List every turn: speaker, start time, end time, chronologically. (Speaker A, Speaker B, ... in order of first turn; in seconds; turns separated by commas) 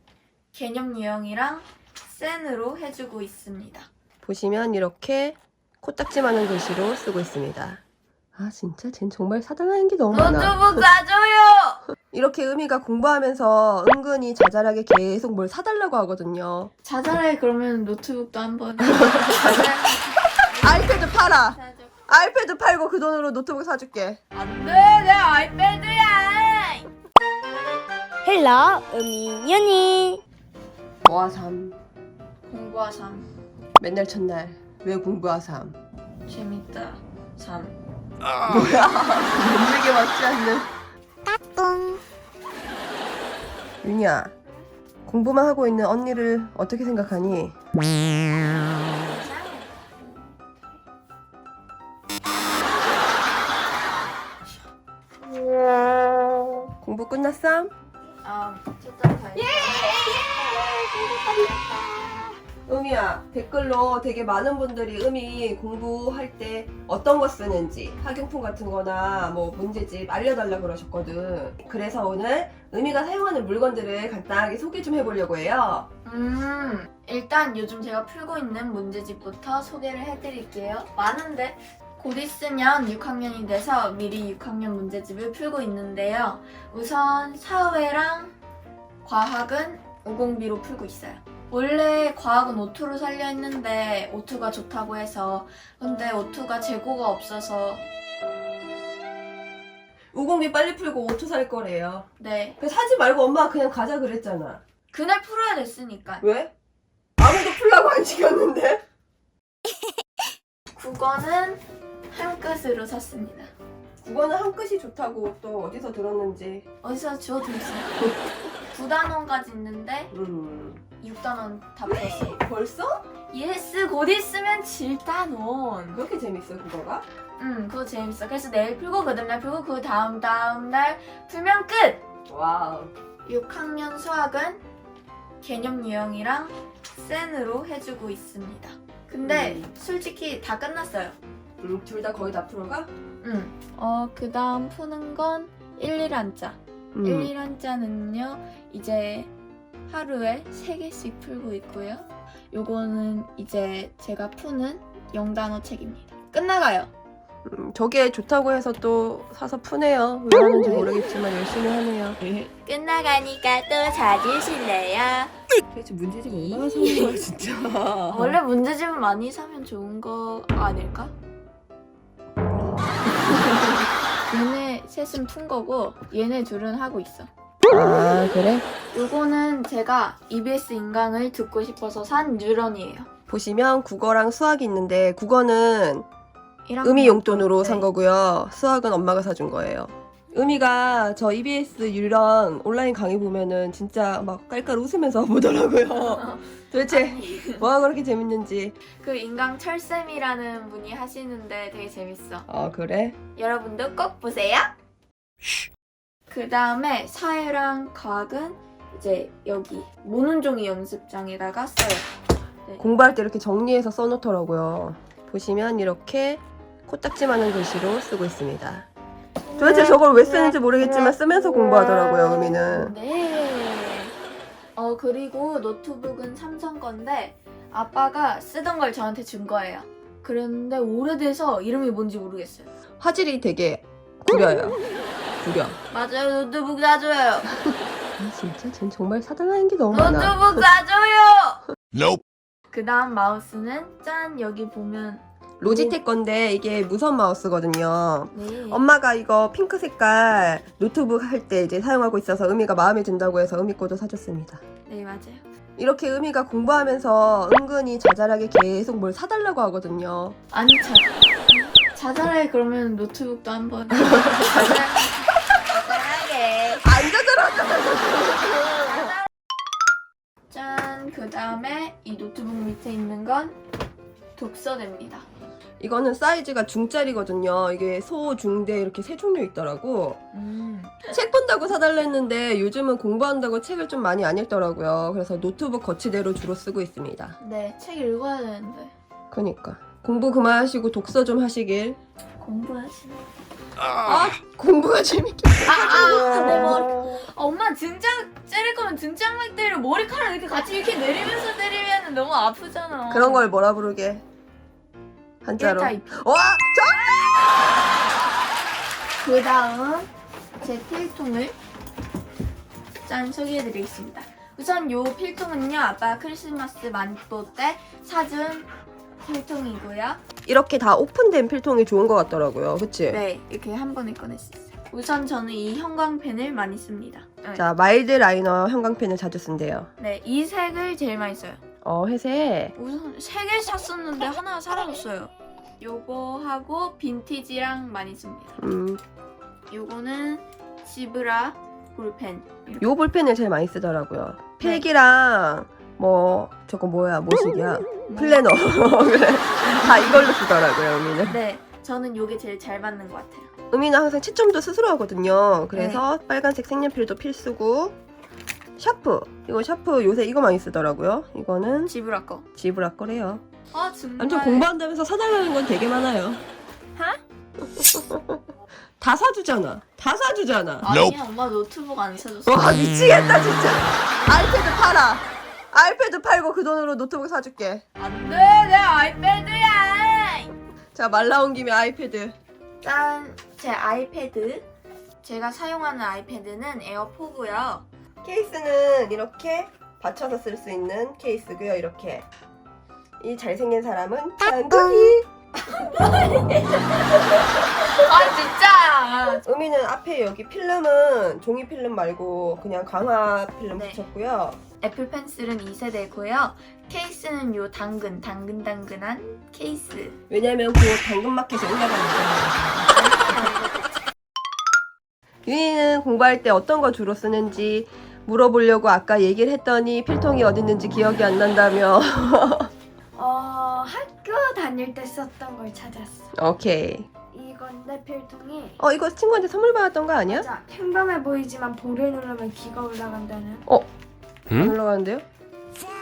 Speaker A: 0.5-3.9, Speaker B: 4.2-7.8, Speaker B: 8.3-10.8, Speaker A: 10.1-11.8, Speaker B: 12.1-16.7, Speaker A: 16.8-22.1, Speaker B: 19.0-19.7, Speaker B: 20.6-24.2, Speaker A: 24.3-26.9, Speaker C: 28.2-30.2, Speaker B: 31.0-31.8, Speaker A: 32.4-33.3, Speaker B: 33.8-35.8, Speaker A: 36.3-37.7, Speaker B: 38.4-40.7, Speaker B: 43.8-44.3, Speaker B: 45.1-47.5, Speaker A: 48.4-50.6, Speaker B: 56.8-57.7, Speaker A: 58.2-60.0, Speaker B: 59.6-61.7, Speaker B: 62.6-75.9, Speaker A: 76.0-88.3, Speaker A: 89.0-97.8, Speaker B: 100.1-102.1, Speaker A: 102.2-102.6, Speaker B: 102.6-104.6, Speaker A: 104.9-106.2, Speaker B: 106.2-106.5, Speaker B: 107.2-108.8, Speaker A: 110.7-113.5, Speaker B: 114.0-116.6, Speaker A: 116.8-118.1, Speaker A: 118.7-120.1, Speaker B: 120.1-120.8, Speaker A: 121.0-122.4, Speaker B: 121.8-123.0, Speaker A: 123.3-126.0, Speaker B: 125.9-127.0, Speaker A: 127.4-132.0, Speaker B: 132.3-132.9, Speaker A: 133.2-134.6, Speaker A: 135.4-141.2, Speaker B: 139.2-139.7, Speaker B: 141.6-142.9, Speaker A: 143.2-149.3, Speaker B: 146.9-147.3, Speaker A: 149.9-156.9, Speaker B: 157.4-162.2, Speaker A: 162.2-165.3, Speaker B: 165.7-168.4, Speaker A: 166.3-167.2, Speaker A: 168.1-171.1, Speaker A: 174.3-177.3, Speaker B: 177.7-178.7, Speaker A: 178.9-183.1, Speaker B: 183.3-186.1, Speaker A: 186.7-187.9, Speaker B: 186.8-198.8, Speaker A: 196.0-197.7, Speaker A: 199.0-202.4, Speaker B: 202.5-203.2, Speaker A: 203.3-204.7, Speaker A: 206.3-212.1, Speaker B: 212.8-218.9, Speaker D: 219.5-219.9, Speaker B: 219.6-222.9, Speaker A: 219.9-224.1, Speaker A: 224.8-232.7, Speaker B: 233.0-234.8, Speaker B: 235.4-235.8, Speaker A: 235.9-237.5, Speaker B: 238.2-240.7, Speaker A: 239.9-241.6, Speaker A: 242.7-245.9, Speaker B: 245.6-254.6, Speaker A: 248.3-248.8, Speaker A: 254.8-255.4, Speaker B: 255.8-260.4, Speaker A: 260.5-266.9, Speaker B: 264.1-264.7, Speaker B: 266.8-269.2, Speaker A: 268.8-269.3, Speaker A: 270.5-273.6, Speaker A: 274.4-275.3, Speaker B: 275.8-280.2, Speaker A: 280.3-281.1, Speaker B: 281.1-287.4, Speaker A: 287.4-288.9, Speaker B: 289.3-292.0, Speaker A: 292.4-293.2, Speaker B: 294.0-296.8, Speaker A: 295.6-303.5, Speaker B: 303.1-304.2, Speaker B: 305.4-307.4, Speaker A: 305.6-306.2, Speaker A: 309.2-310.1, Speaker A: 310.6-311.6, Speaker A: 313.0-318.7, Speaker A: 319.2-320.2, Speaker B: 320.4-323.2, Speaker A: 323.1-327.6, Speaker B: 327.6-329.9, Speaker A: 330.0-331.6, Speaker B: 331.8-332.7, Speaker A: 332.8-338.6, Speaker B: 338.6-339.0, Speaker A: 339.7-342.9, Speaker B: 342.8-351.4, Speaker A: 344.6-344.9, Speaker A: 348.1-348.5, Speaker A: 351.3-353.5, Speaker B: 353.7-357.9, Speaker A: 355.7-356.0, Speaker B: 358.8-361.9, Speaker A: 361.9-362.4, Speaker B: 362.6-363.4, Speaker A: 363.7-364.7, Speaker B: 364.2-366.4, Speaker B: 367.6-368.4, Speaker B: 369.0-370.9, Speaker A: 370.8-372.8, Speaker B: 372.4-377.8, Speaker A: 378.0-380.5, Speaker B: 380.9-382.3, Speaker A: 382.8-384.6, Speaker A: 385.2-387.9, Speaker B: 388.2-392.2, Speaker B: 393.2-395.3, Speaker A: 395.7-399.4, Speaker B: 399.4-404.6, Speaker A: 403.8-404.0, Speaker A: 404.8-410.2, Speaker B: 410.3-412.9, Speaker A: 412.9-413.9, Speaker B: 415.4-422.7, Speaker D: 423.1-426.3, Speaker B: 426.3-427.1, Speaker D: 427.3-428.8, Speaker B: 428.8-430.5, Speaker D: 430.2-433.6, Speaker B: 434.5-435.2